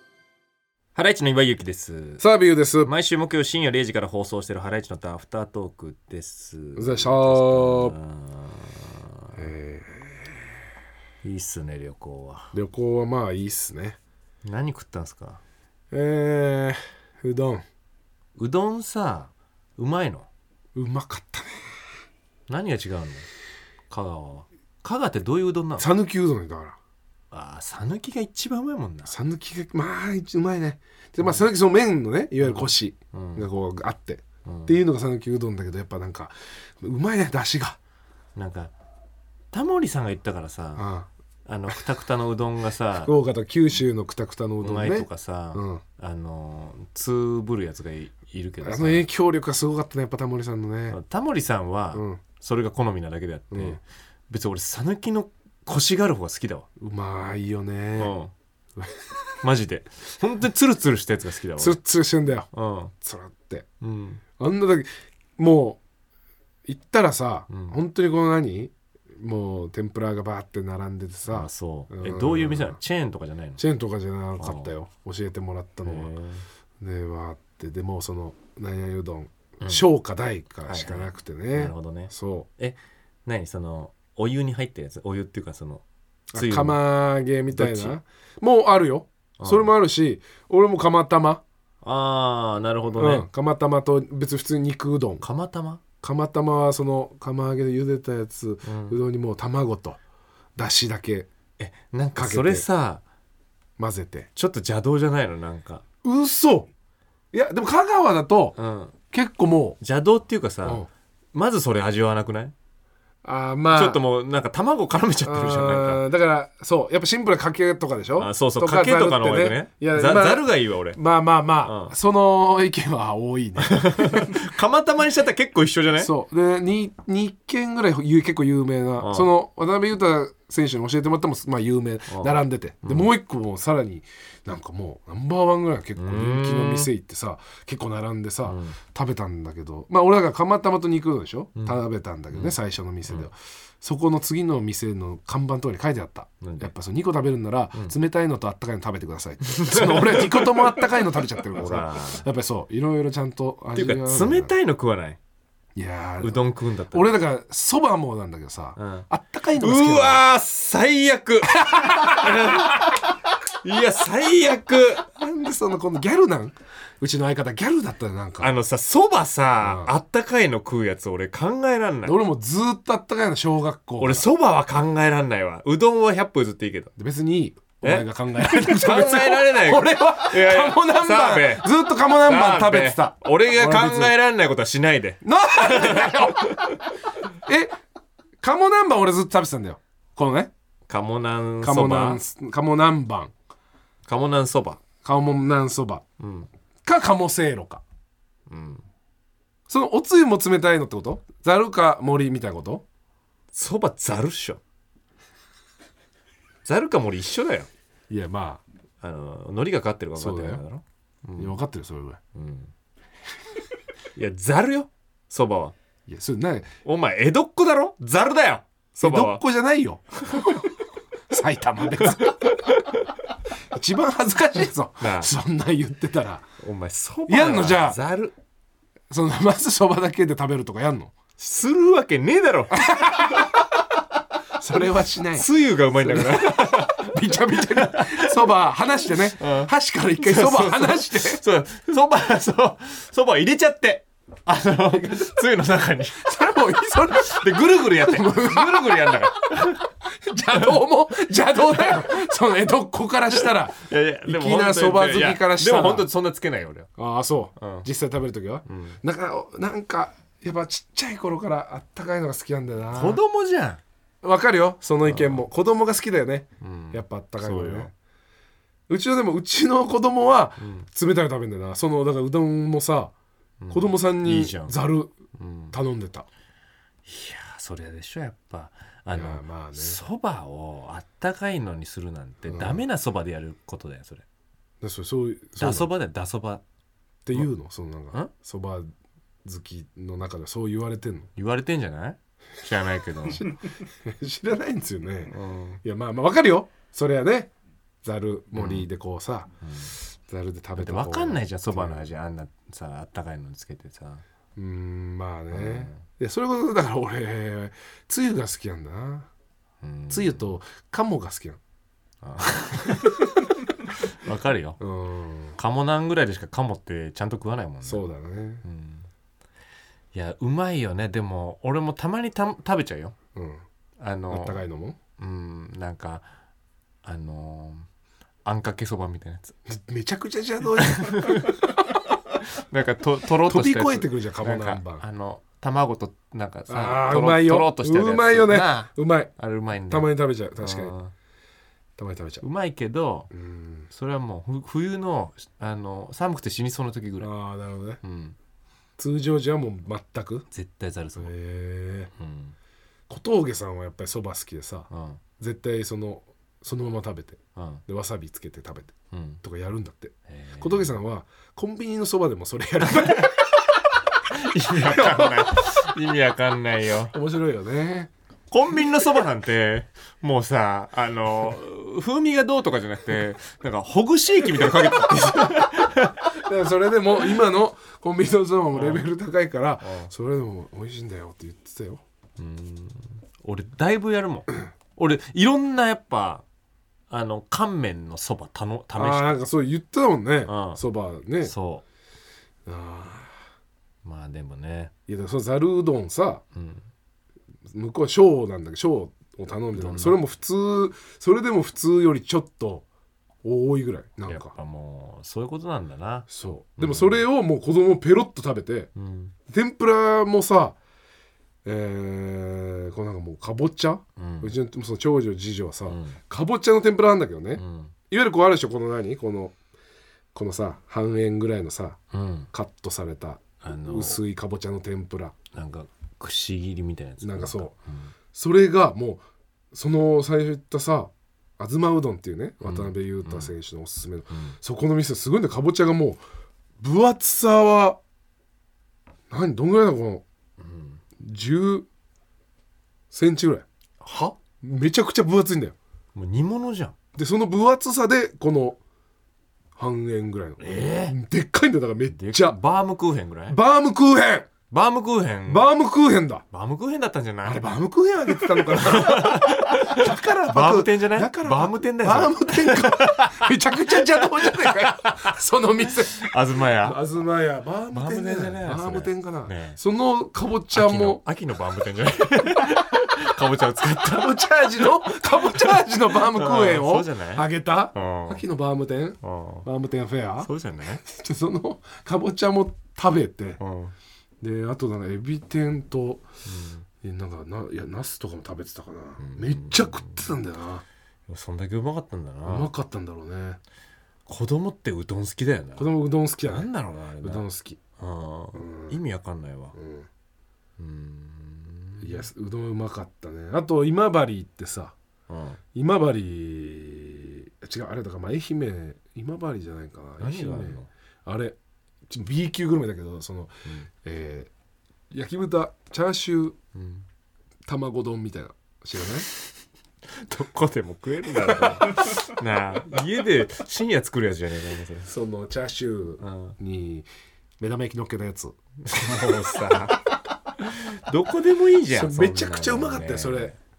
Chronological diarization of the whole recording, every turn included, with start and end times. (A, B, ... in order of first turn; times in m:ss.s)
0:01.0-0:02.3 A
0:02.2-0:02.9 B
0:02.8-0:09.4 A
0:06.8-0:08.0 B
0:09.4-0:10.6 B
0:11.2-0:12.5 A
0:12.5-0:14.0 B
0:14.4-0:15.4 A
0:15.9-0:17.7 B
0:18.4-0:20.3 A
0:20.8-0:21.9 B
0:22.5-0:23.3 A
0:23.9-0:25.9 A
0:25.8-0:26.8 B
0:27.3-0:29.1 A
0:29.1-0:37.8 B
0:31.2-0:31.5 A
0:32.4-0:33.5 A
0:34.4-0:34.8 A
0:38.4-0:38.7 A
0:39.5-0:40.9 A
0:40.8-0:41.1 B
0:41.4-0:43.1 A
0:43.0-0:45.8 B
0:44.6-0:49.1 A
0:48.6-0:51.0 B
0:50.9-0:56.7 A
0:51.9-0:52.2 B
0:53.5-0:53.8 B
0:56.8-0:58.1 B
0:58.0-0:58.3 A
0:58.8-0:59.3 B
0:59.4-1:01.8 A
1:01.6-1:02.5 B
1:02.5-1:02.9 A
1:03.0-1:03.7 B
1:03.8-1:04.2 A
1:04.4-1:05.8 B
1:06.6-1:12.8 B
1:07.5-1:07.8 A
1:11.3-1:13.6 A
1:13.6-1:16.1 B
1:14.4-1:14.7 A
1:15.8-1:16.5 A
1:16.8-1:22.5 B
1:20.7-1:25.8 A
1:26.3-1:31.4 B
1:26.4-1:26.8 A
1:27.5-1:28.0 A
1:29.4-1:29.7 A
1:31.8-1:33.3 A
1:33.0-1:35.2 B
1:35.2-1:35.8 A
1:36.0-1:40.0 B
1:38.6-1:39.0 A
1:40.6-1:41.3 B
1:41.6-1:43.0 A
1:42.2-1:42.7 B
1:43.8-1:44.3 B
1:44.4-1:45.8 A
1:46.0-1:46.7 B
1:47.3-1:48.6 B
1:48.6-1:49.0 A
1:49.1-1:49.8 B
1:49.8-1:52.5 A
1:50.6-1:50.9 B
1:53.2-1:54.0 B
1:53.7-1:56.0 A
1:55.2-2:04.4 B
1:58.2-2:01.0 A
2:01.6-2:01.9 A
2:03.6-2:06.1 A
2:06.0-2:34.5 B
2:09.0-2:09.3 A
2:12.1-2:13.1 A
2:16.0-2:16.9 A
2:18.4-2:18.8 A
2:26.4-2:26.7 A
2:29.5-2:32.3 A
2:33.8-2:35.2 A
2:35.8-2:40.2 B
2:36.2-2:37.2 A
2:38.8-2:45.1 A
2:41.5-2:42.9 B
2:45.2-2:48.5 B
2:48.4-2:52.2 A
2:49.6-2:50.0 B
2:52.0-2:54.3 B
2:54.0-2:56.9 A
2:57.0-3:04.2 B
2:57.8-3:06.8 A
3:05.2-3:06.8 B
3:07.4-3:07.8 B
3:08.4-3:10.5 B
3:10.9-3:12.2 A
3:11.6-3:13.3 B
3:14.1-3:14.8 A
3:15.0-3:16.0 B
3:16.2-3:16.5 A
3:16.8-3:17.8 B
3:18.5-3:18.8 A
3:19.7-3:22.8 B
3:23.5-3:24.6 A
3:26.6-3:27.7 A
3:28.1-3:28.6 B
3:29.0-3:31.6 A
3:30.2-3:30.6 B
3:31.4-3:32.2 B
3:32.3-3:32.7 A
3:34.2-3:35.8 A
3:36.1-3:36.7 B
3:36.8-3:39.4 A
3:39.0-3:40.6 B
3:40.3-3:40.6 A
3:41.3-3:42.5 B
3:42.0-3:43.1 A
3:43.7-3:46.5 B
3:45.0-3:45.3 A
3:46.6-3:48.4 A
3:47.3-3:48.0 B
3:49.1-3:51.2 B
3:51.4-3:53.5 A
3:52.7-3:53.6 B
3:54.6-4:01.4 B
3:55.3-3:58.5 A
3:59.0-4:06.4 A
4:06.2-4:16.1 B
4:07.1-4:09.9 A
4:13.3-4:16.9 A
4:17.0-4:23.2 B
4:17.6-4:17.9 A
4:18.7-4:19.0 A
4:22.9-4:23.8 A
4:24.2-4:27.9 B
4:25.0-4:25.4 A
4:26.6-4:27.9 A
4:28.9-4:33.1 B
4:30.6-4:30.9 A
4:33.6-4:34.8 A
4:33.7-4:35.1 B
4:35.3-4:35.8 A
4:35.7-4:36.3 B
4:37.1-4:44.2 A
4:39.1-4:40.0 B
4:42.5-4:42.8 B
4:44.8-4:45.9 B
4:45.6-4:46.6 A
4:47.2-4:48.9 B
4:49.4-4:51.3 B
4:51.4-4:53.6 A
4:53.3-4:57.5 B
4:55.3-4:55.8 A
4:58.0-5:02.1 B
4:58.5-4:58.9 A
4:59.6-4:59.9 A
5:00.8-5:04.2 A
5:04.6-5:09.3 B
5:05.5-5:06.0 A
5:09.8-5:10.5 A
5:10.1-5:11.6 B
5:12.2-5:13.3 A
5:13.9-5:14.8 A
5:14.8-5:15.6 B
5:15.6-5:18.1 A
5:17.8-5:18.6 B
5:18.6-5:19.1 A
5:20.1-5:23.2 A
5:23.4-5:23.6 B
5:24.0-5:24.6 A
5:24.3-5:25.0 B
5:25.2-5:26.3 A
5:27.0-5:27.9 A
5:28.4-5:29.6 A
5:29.7-5:31.6 B
5:30.8-5:31.7 A
5:32.4-5:41.1 A
5:33.4-5:35.0 B
5:36.7-5:39.3 B
5:39.9-5:40.9 B
5:42.0-5:42.4 B
5:42.4-5:43.3 A
5:43.3-5:43.9 B
5:43.9-5:47.3 A
5:47.2-5:48.0 B
5:48.0-5:48.4 A
5:49.0-5:50.5 B
5:50.5-5:51.3 A
5:51.2-5:52.1 B
5:52.2-5:52.6 A
5:53.1-6:03.5 B
5:54.9-5:55.2 A
5:57.6-5:57.8 A
5:59.1-5:59.4 A
6:00.3-6:00.9 A
6:02.9-6:03.5 A
6:04.3-6:07.1 A
6:04.8-6:05.9 B
6:07.1-6:08.1 B
6:08.5-6:16.4 A
6:16.3-6:22.0 B
6:18.7-6:19.1 A
6:19.8-6:20.1 A
6:22.4-6:26.4 A
6:27.1-6:29.4 A
6:29.0-6:31.5 B
6:30.5-6:30.8 A
6:31.4-6:31.8 A
6:32.7-6:33.4 B
6:34.0-6:34.9 A
6:35.1-6:36.4 B
6:36.5-6:36.9 A
6:37.6-6:42.9 B
6:39.7-6:40.2 A
6:43.4-6:44.5 B
6:44.2-6:47.2 A
6:46.3-6:48.9 B
6:49.0-6:49.3 A
6:49.5-6:50.8 B
6:51.6-6:59.6 B
6:54.2-6:54.5 A
6:55.9-6:56.2 A
6:57.6-6:57.9 A
7:00.3-7:02.0 B
7:02.1-7:02.5 A
7:02.5-7:05.4 B
7:03.6-7:04.2 A
7:05.5-7:08.1 A
7:07.2-7:07.8 B
7:08.3-7:16.2 B
7:12.6-7:13.5 A
7:14.3-7:14.6 A
7:16.8-7:18.0 B
7:19.3-7:20.2 B
7:20.6-7:21.0 A
7:21.2-7:21.9 B
7:23.1-7:23.7 B
7:24.0-7:24.4 A
7:24.6-7:25.8 B
7:26.1-7:27.0 A
7:27.2-7:28.8 B
7:29.8-7:32.6 B
7:30.6-7:31.2 A
7:32.1-7:33.6 A
7:33.5-7:34.5 B
7:34.7-7:35.7 A
7:35.5-7:36.4 B
7:36.5-7:37.7 A
7:37.4-7:51.2 B
7:38.3-7:45.2 A
7:46.1-7:47.0 A
7:47.9-7:49.8 A
7:50.7-7:58.4 A
7:54.0-8:00.5 B
7:59.2-7:59.7 A
8:00.4-8:01.0 A
8:01.0-8:03.6 B
8:03.6-8:03.9 A
8:04.4-8:06.2 B
8:06.4-8:06.9 A
8:07.0-8:10.8 B
8:09.2-8:10.3 A
8:11.3-8:12.7 A
8:12.4-8:13.6 B
8:14.3-8:17.5 A
8:15.8-8:16.7 B
8:17.2-8:17.8 B
8:18.0-8:19.8 A
8:18.6-8:19.0 B
8:19.8-8:20.1 B
8:20.8-8:22.3 A
8:22.0-8:25.0 B
8:25.3-8:25.6 A
8:25.7-8:31.6 B
8:30.2-8:30.9 A
8:32.1-8:34.5 B
8:35.1-8:36.6 B
8:36.8-8:37.1 A
8:37.7-8:39.3 B
8:40.1-8:45.1 A
8:41.5-8:42.1 B
8:45.0-8:47.1 B
8:46.2-8:46.6 A
8:47.6-8:48.6 B
8:48.8-8:50.1 A
8:49.1-8:49.9 B
8:50.6-8:53.6 A
8:51.9-8:53.5 B